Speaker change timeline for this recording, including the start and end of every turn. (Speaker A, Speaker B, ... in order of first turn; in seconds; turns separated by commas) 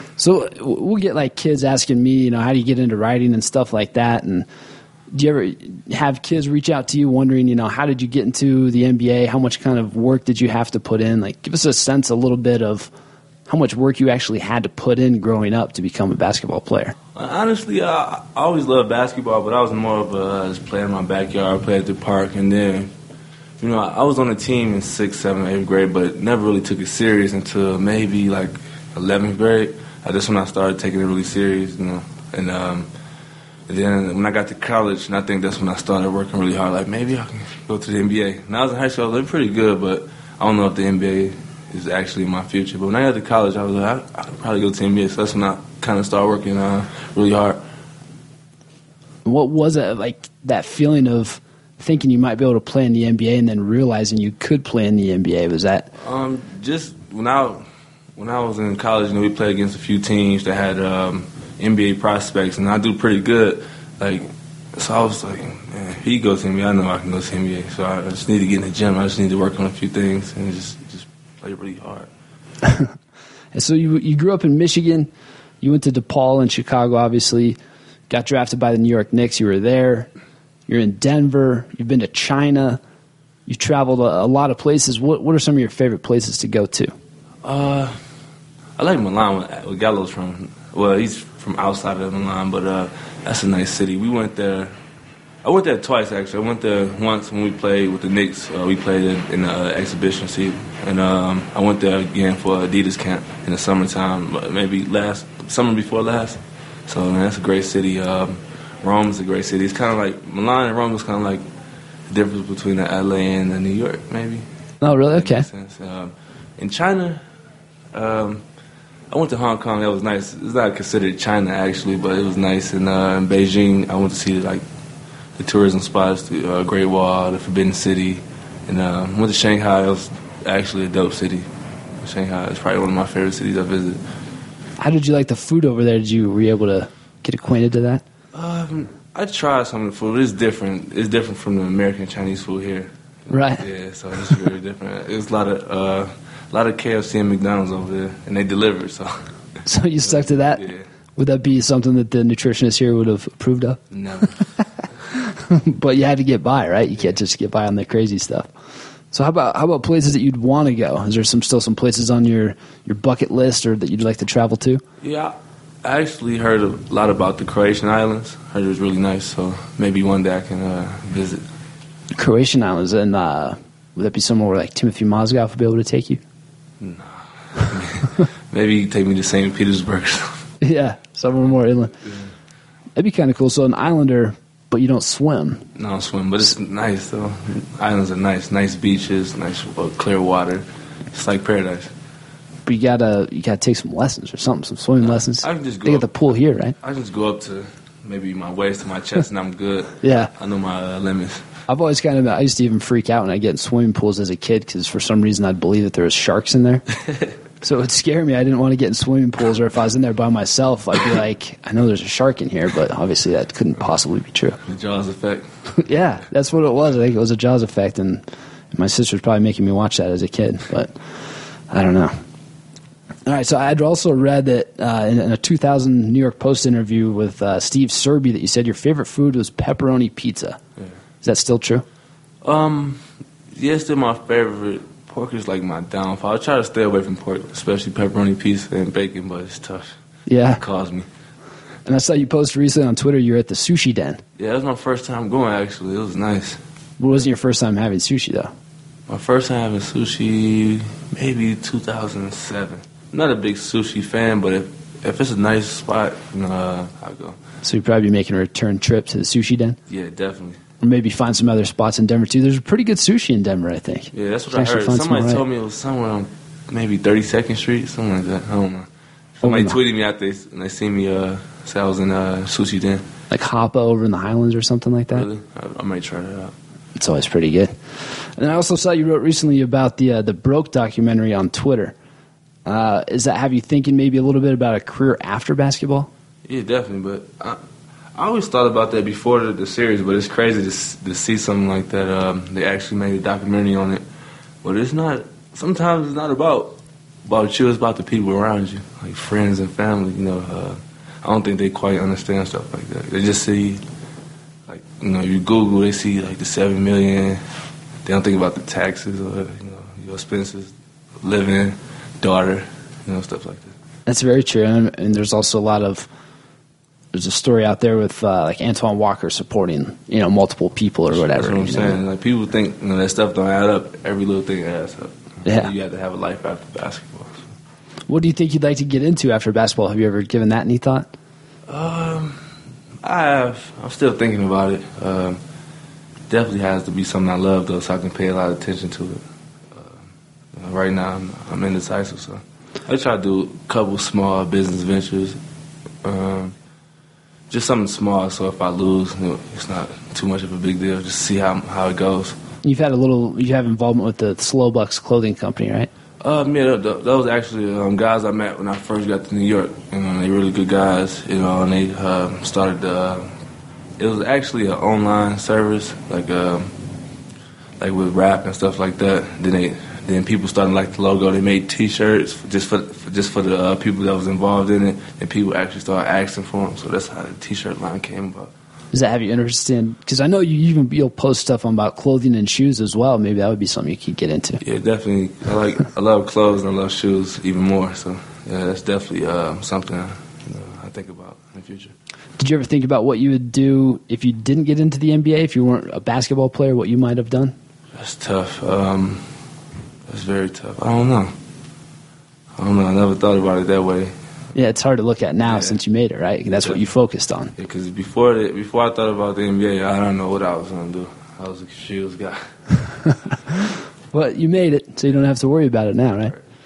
Speaker A: 0.2-4.5, Speaker A: 5.1-12.9, Speaker A: 13.5-17.0, Speaker B: 17.1-22.9, Speaker B: 23.6-32.9, Speaker B: 33.7-47.6, Speaker A: 49.2-55.9, Speaker B: 56.0-57.6, Speaker B: 58.2-72.1, Speaker A: 72.6-72.9, Speaker A: 73.5-75.1, Speaker A: 75.6-77.6, Speaker A: 78.1-80.1, Speaker A: 80.7-82.8, Speaker A: 83.5-86.9, Speaker B: 87.4-88.0, Speaker B: 88.8-94.7, Speaker B: 95.4-111.4, Speaker B: 112.1-114.5, Speaker A: 114.8-115.5, Speaker B: 115.1-117.2, Speaker B: 117.9-118.4, Speaker B: 119.1-124.6, Speaker B: 125.4-131.5, Speaker B: 132.0-134.0, Speaker A: 134.8-138.0, Speaker B: 138.3-149.2, Speaker A: 143.3-143.6, Speaker A: 149.7-150.6, Speaker B: 150.0-150.9, Speaker A: 151.2-153.8, Speaker B: 153.9-154.4, Speaker A: 155.1-158.5, Speaker A: 159.1-164.8, Speaker B: 165.0-171.4, Speaker A: 172.2-176.2, Speaker B: 176.8-180.4, Speaker A: 180.6-182.0, Speaker A: 183.0-185.7, Speaker B: 185.8-191.9, Speaker A: 192.7-196.8, Speaker B: 195.0-196.2, Speaker B: 196.8-201.5, Speaker A: 200.0-200.3, Speaker A: 201.7-206.9, Speaker A: 207.6-214.6, Speaker B: 214.7-215.5, Speaker A: 215.8-220.9, Speaker A: 221.7-222.2, Speaker A: 223.3-230.6, Speaker A: 231.2-231.8, Speaker B: 232.4-233.0, Speaker B: 233.6-239.9, Speaker A: 240.3-240.6, Speaker B: 240.6-241.1, Speaker A: 241.9-244.2, Speaker B: 244.4-246.6, Speaker A: 247.0-248.5, Speaker B: 249.1-257.4, Speaker A: 257.6-259.8, Speaker B: 259.9-260.6, Speaker A: 260.8-265.4, Speaker B: 264.1-268.9, Speaker B: 269.4-273.1, Speaker A: 269.4-269.8, Speaker A: 273.3-275.3, Speaker B: 275.1-276.5, Speaker A: 277.0-277.7, Speaker A: 278.4-281.9, Speaker A: 282.7-286.1, Speaker B: 286.5-287.6, Speaker B: 288.1-294.0, Speaker B: 294.6-303.8, Speaker B: 304.7-307.4, Speaker B: 308.0-313.7, Speaker A: 314.1-316.1, Speaker A: 317.1-322.0, Speaker B: 321.1-327.4, Speaker A: 325.4-325.7, Speaker A: 328.1-331.1, Speaker B: 331.7-332.4, Speaker B: 333.0-335.4, Speaker B: 336.3-340.0, Speaker B: 340.5-345.4, Speaker B: 346.0-346.6, Speaker B: 347.5-352.4, Speaker A: 352.6-355.9, Speaker B: 356.2-363.3, Speaker B: 364.0-366.7, Speaker B: 367.8-378.5, Speaker A: 378.9-384.6, Speaker B: 384.6-391.9, Speaker A: 392.4-397.6, Speaker B: 397.9-399.3, Speaker B: 400.1-401.3, Speaker B: 402.6-404.1, Speaker A: 404.6-407.5, Speaker B: 405.5-405.8, Speaker B: 406.5-406.8, Speaker B: 407.6-412.5, Speaker A: 414.1-416.3